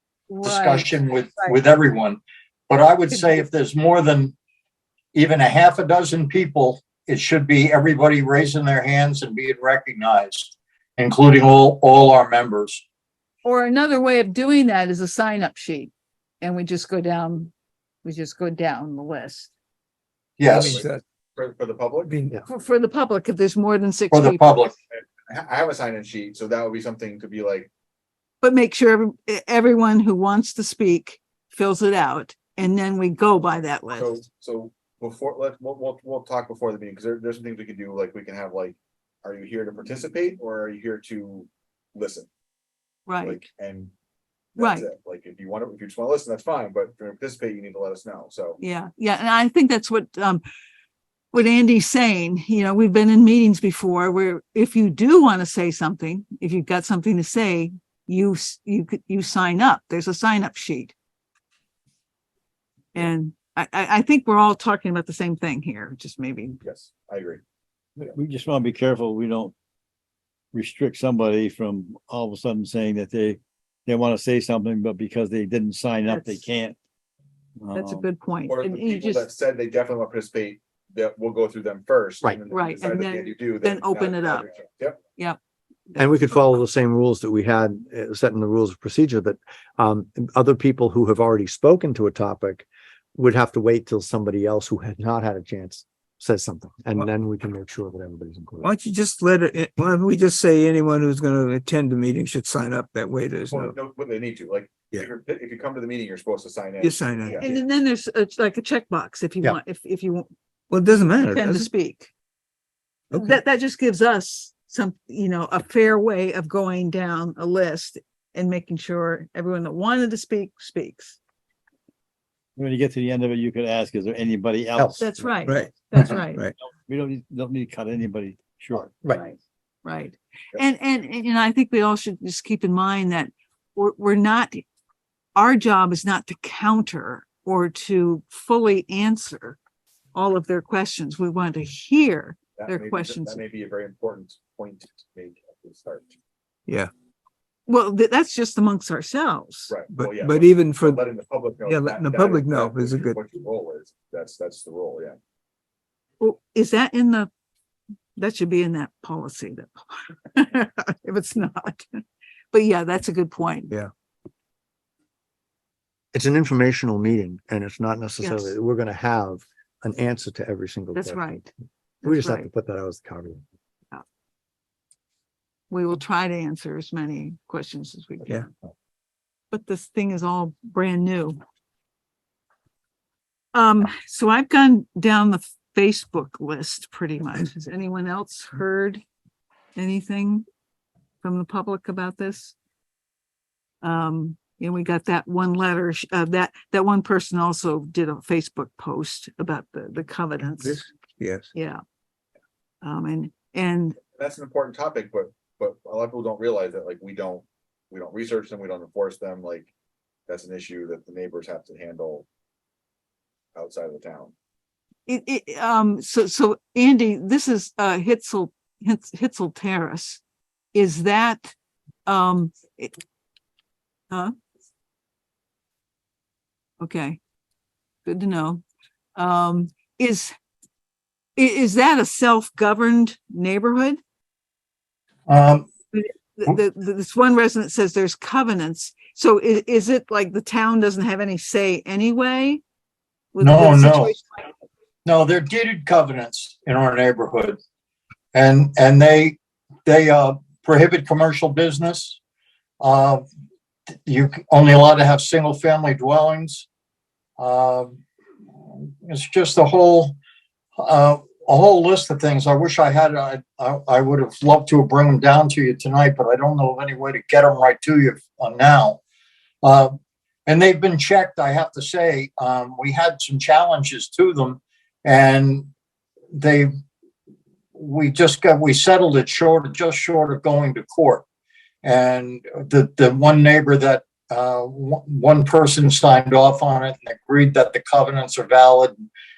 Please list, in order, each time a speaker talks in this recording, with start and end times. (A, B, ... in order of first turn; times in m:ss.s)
0:00.3-0:01.6 A
0:00.4-0:04.4 B
0:03.1-0:03.4 A
0:05.1-0:12.8 B
0:13.4-0:17.5 A
0:18.0-0:19.5 A
0:20.4-0:20.8 B
0:20.5-0:21.0 C
0:20.6-0:22.1 D
0:22.1-0:22.4 C
0:22.5-0:24.8 A
0:24.1-0:24.7 B
0:24.9-0:27.7 D
0:28.4-0:34.2 A
0:34.0-0:42.3 D
0:43.1-0:43.4 A
0:43.2-0:43.9 D
0:44.6-0:48.6 D
0:44.6-0:44.9 A
0:48.6-0:50.4 A
0:51.3-1:00.9 A
1:03.0-1:06.6 A
1:06.6-1:07.4 D
1:08.0-1:09.6 E
1:10.5-1:16.8 E
1:16.1-1:16.4 A
1:17.6-1:18.1 E
1:17.7-1:19.3 A
1:18.5-1:25.0 D
1:22.5-1:24.5 A
1:26.0-1:38.7 F
1:38.6-1:43.8 C
1:43.5-1:47.5 D
1:46.8-1:47.5 C
1:47.4-1:50.3 A
1:50.7-1:51.7 C
1:51.2-1:52.1 A
1:53.2-2:01.2 A
2:02.6-2:05.3 E
2:04.8-2:05.0 F
2:05.0-2:06.5 A
2:05.5-2:06.5 C
2:06.9-2:09.2 E
2:09.1-2:14.6 A
2:15.4-2:19.6 A
2:20.1-2:23.4 A
2:22.6-2:26.2 D
2:27.7-2:29.8 A
2:29.7-2:35.2 D
2:29.9-2:31.0 C
2:31.6-2:33.2 C
2:36.2-2:37.3 A
2:38.2-2:43.7 A
2:46.1-2:51.4 F
2:48.2-2:48.6 A
2:51.0-2:51.5 A
2:52.0-2:52.5 A
2:52.0-2:53.4 F
2:55.7-2:58.5 A
2:59.5-3:01.4 A
3:03.5-3:09.0 A
3:09.8-3:10.4 A
3:11.2-3:12.6 A
3:13.8-3:20.9 A
3:20.6-3:21.5 C
3:21.5-3:21.8 A
3:22.8-3:24.0 A
3:24.2-3:29.7 D
3:30.3-3:32.3 D
3:33.6-3:34.3 D
3:35.1-3:40.2 A
3:40.7-3:41.5 A
3:42.1-3:43.0 A
3:46.8-3:47.2 A
3:48.1-3:48.6 A
3:49.2-3:50.4 A
3:51.4-3:54.0 A
3:55.3-3:55.7 B
3:55.9-4:02.6 A
4:03.3-4:04.2 A
4:03.4-4:04.2 B
4:05.0-4:07.6 B
4:08.3-4:12.2 B
4:12.8-4:13.2 B
4:14.0-4:16.7 B
4:17.4-4:18.0 B
4:18.8-4:20.2 B
4:20.8-4:29.0 B
4:29.6-4:29.9 B
4:30.5-4:35.7 B
4:36.4-4:36.7 B
4:37.8-4:41.2 B
4:41.8-4:49.0 B